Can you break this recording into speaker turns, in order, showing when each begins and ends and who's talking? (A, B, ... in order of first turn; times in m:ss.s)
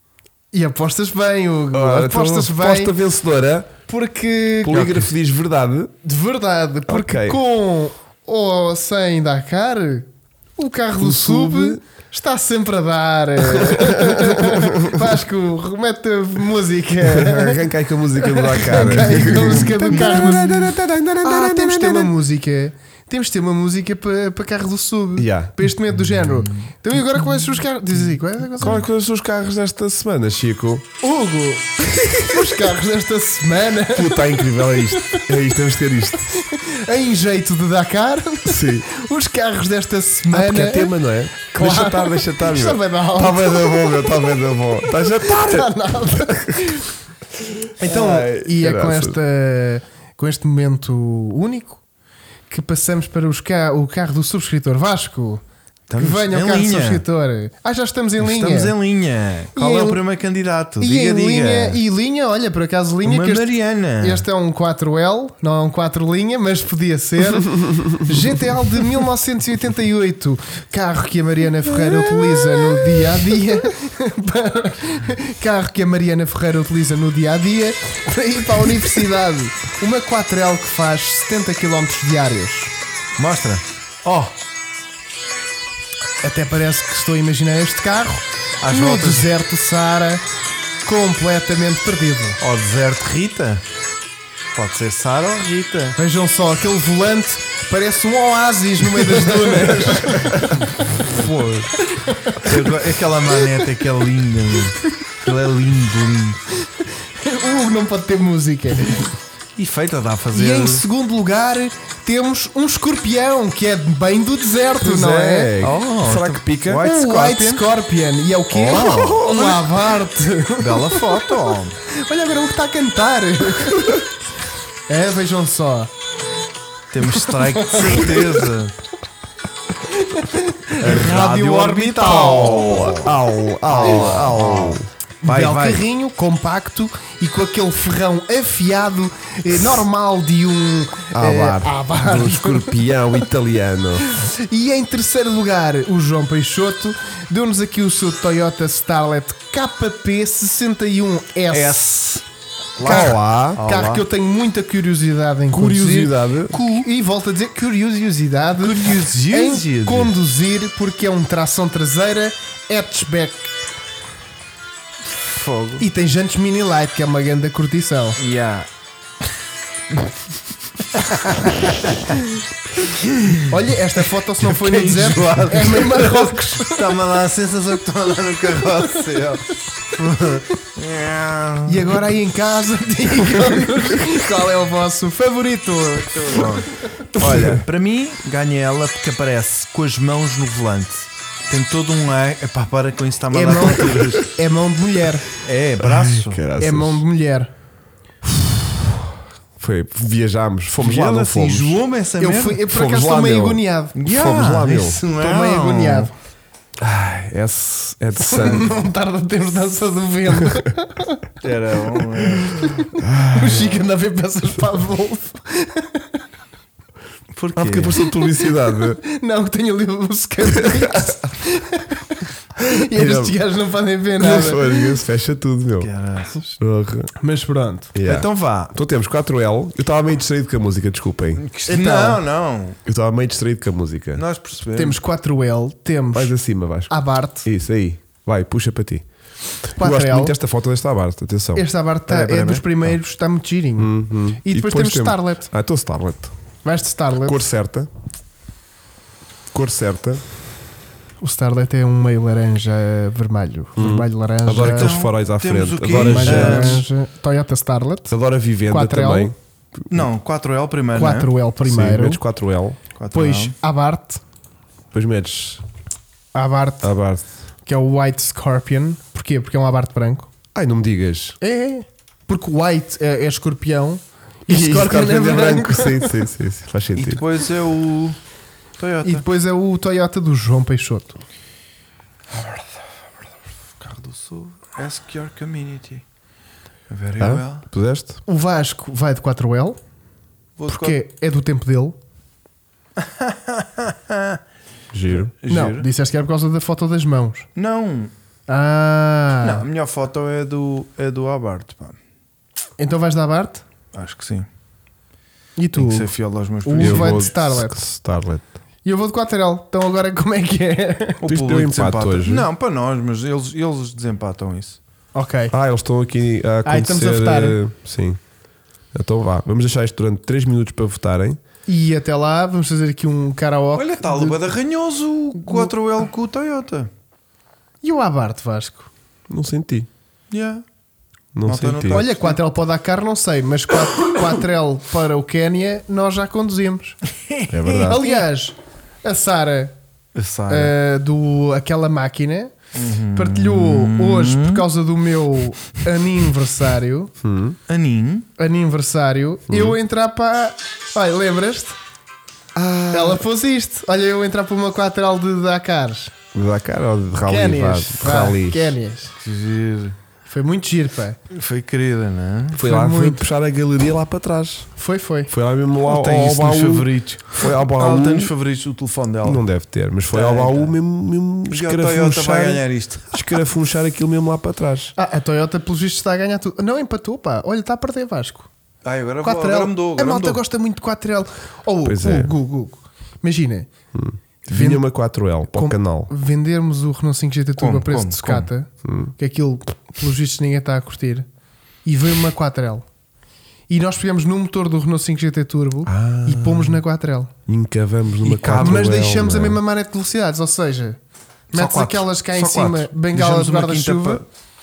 0:00.5-0:02.9 A
0:01.7-0:03.7 B
0:03.9-0:04.8 A
0:04.6-0:05.9 B
0:04.7-0:05.1 C
0:06.0-0:28.8 A
0:06.9-0:07.4 B
0:11.0-0:11.8 B
0:13.6-0:15.1 B
0:17.1-0:22.1 B
0:18.7-0:20.4 C
0:25.2-0:25.5 B
0:26.2-0:26.7 C
0:28.6-0:30.8 B
0:31.0-0:35.3 A
0:32.2-0:32.5 B
0:33.9-0:36.3 B
0:36.2-0:43.6 A
0:38.4-0:38.9 B
0:40.3-0:46.8 B
0:45.2-0:46.9 A
0:47.8-0:49.2 B
0:47.8-0:51.8 A
0:52.5-0:55.4 A
0:55.9-0:57.0 C
0:56.0-0:58.7 A
0:58.2-1:01.8 C
0:59.5-1:00.0 A
1:00.8-1:22.7 A
1:03.0-1:04.2 C
1:23.2-1:24.3 C
1:26.2-1:30.2 A
1:28.6-1:29.3 C
1:30.8-1:32.4 A
1:32.4-1:33.6 C
1:34.5-1:36.0 C
1:36.0-1:40.8 A
1:39.0-1:41.8 C
1:41.8-1:43.7 A
1:42.3-1:46.4 C
1:46.8-1:49.1 A
1:49.6-1:50.8 C
1:50.3-1:55.6 A
1:54.8-1:56.9 B
1:55.6-1:57.6 C
1:56.8-2:01.3 A
1:58.5-1:59.5 C
1:58.7-1:59.5 B
2:00.6-2:01.8 C
2:01.9-2:04.0 A
2:04.9-2:05.9 A
2:06.9-2:08.8 C
2:07.0-2:08.5 A
2:09.8-2:12.9 A
2:10.8-2:15.8 C
2:12.5-2:14.9 B
2:13.8-2:14.4 A
2:15.2-2:22.9 A
2:21.1-2:24.1 B
2:24.0-2:32.2 A
2:31.5-2:32.1 C
2:32.8-2:34.0 C
2:32.8-2:43.5 A
2:32.8-2:33.6 B
2:35.5-2:36.6 B
2:38.6-2:40.1 C
2:45.2-2:45.8 C
2:45.8-2:48.2 A
2:48.2-2:48.7 C
2:50.9-2:52.1 C
2:52.8-2:53.4 C
2:53.5-2:56.9 A
2:54.4-3:02.1 C
3:01.6-3:07.6 A
3:06.2-3:14.3 C
3:13.3-3:15.3 A
3:15.3-3:16.4 C
3:15.8-3:17.0 B
3:16.6-3:17.5 A
3:18.2-3:21.8 B
3:20.8-3:22.6 C
3:22.2-3:24.0 A
3:22.7-3:25.0 B
3:23.9-3:26.1 C
3:25.2-3:26.1 A
3:26.8-3:28.7 B
3:28.2-3:31.2 A
3:31.4-3:32.7 C
3:32.4-3:36.2 A
3:33.0-3:33.6 B
3:37.3-3:38.0 C
3:37.5-3:39.0 B
3:38.0-3:44.8 A
3:40.5-3:41.1 B
3:42.7-3:43.4 B
3:44.2-3:45.9 B
3:45.8-3:46.5 C
3:46.6-3:47.1 B
3:47.2-3:47.9 A
3:47.9-3:51.4 B
3:48.0-3:48.7 C
3:51.4-3:52.8 C
3:51.6-3:52.2 A
3:52.8-3:54.2 B
3:54.2-3:55.0 C
3:54.7-3:56.3 A
3:56.1-3:56.9 B
3:56.9-3:57.4 A
3:57.4-3:59.0 B
3:59.7-4:01.6 B
3:59.8-4:00.3 A
4:01.5-4:05.5 A
4:02.1-4:02.7 C
4:03.8-4:06.3 B
4:06.6-4:07.5 A
4:07.2-4:07.9 B
4:09.5-4:10.2 B
4:11.2-4:15.0 A
4:13.8-4:16.8 B
4:14.5-4:16.8 C
4:15.9-4:18.1 A
4:18.1-4:19.3 B
4:18.7-4:19.3 A
4:19.9-4:21.3 C
4:20.9-4:22.2 A
4:21.6-4:22.8 B
4:23.0-4:23.5 C
4:23.1-4:24.2 A
4:24.9-4:25.6 B
4:26.3-4:26.9 A
4:26.8-4:27.2 B
4:27.6-4:30.3 A
4:30.5-4:31.4 B
4:31.4-4:36.2 A
4:34.5-4:37.2 B
4:37.0-4:38.2 C
4:38.8-4:39.2 C
4:39.0-4:41.2 A
4:42.3-4:42.7 C
4:43.8-4:46.0 C
4:46.9-4:47.6 C
4:47.2-4:48.2 B
4:48.2-4:49.8 A
4:50.6-4:51.0 C
4:50.7-4:52.0 A
4:53.0-4:54.4 C
4:54.9-4:55.3 B
4:55.0-4:55.9 C
4:55.4-4:57.5 A
4:57.5-4:58.1 C
4:58.5-4:59.6 A
4:59.4-5:02.0 C
5:02.8-5:03.6 A
5:03.9-5:04.4 C
5:05.6-5:06.1 A
5:05.7-5:07.3 C
5:06.6-5:07.8 A
5:06.8-5:08.5 B
5:08.8-5:11.2 A
5:11.2-5:14.8 C
5:11.2-5:12.5 B
5:15.1-5:15.5 A
5:15.5-5:18.2 B
5:16.6-5:17.6 A
5:18.9-5:21.4 B
5:21.7-5:24.4 A
5:23.7-5:26.9 C
5:25.4-5:25.7 A
5:27.8-5:28.9 A
5:29.3-5:29.9 B
5:30.3-5:30.6 C
5:31.3-5:32.0 B
5:31.4-5:32.4 C
5:31.9-5:37.0 A
5:37.3-5:38.0 C
5:37.5-5:38.1 B
5:37.7-5:39.7 A
5:40.1-5:40.7 C
5:40.5-5:42.5 A
5:42.7-5:44.6 C
5:43.1-5:47.1 A
5:47.2-5:47.6 B
5:47.7-5:48.3 C
5:48.4-5:51.8 A
5:49.5-5:49.8 B
5:52.5-5:53.2 B
5:52.9-5:56.1 A
5:56.3-5:58.8 B
5:57.2-5:59.1 A
5:59.2-6:00.0 C
6:00.3-6:01.2 A
6:01.3-6:02.6 C
6:02.5-6:04.7 B
6:02.6-6:03.2 A
6:04.8-6:05.3 A
6:05.3-6:08.3 B
6:05.8-6:09.4 C
6:09.2-6:14.9 B
6:10.1-6:10.7 C
6:11.5-6:13.3 C
6:15.0-6:18.5 A
6:18.8-6:20.4 C
6:19.2-6:23.7 A
6:21.8-6:22.3 B
6:23.9-6:26.1 B
6:24.5-6:24.8 A
6:25.5-6:31.3 A
6:27.6-6:28.5 C
6:28.8-6:29.1 B
6:31.8-6:32.8 A
6:33.7-6:37.3 A
6:35.8-6:36.8 B
6:37.5-6:39.6 B
6:38.2-6:38.8 C
6:38.5-6:41.0 A
6:41.5-6:44.2 A
6:41.5-6:44.2 C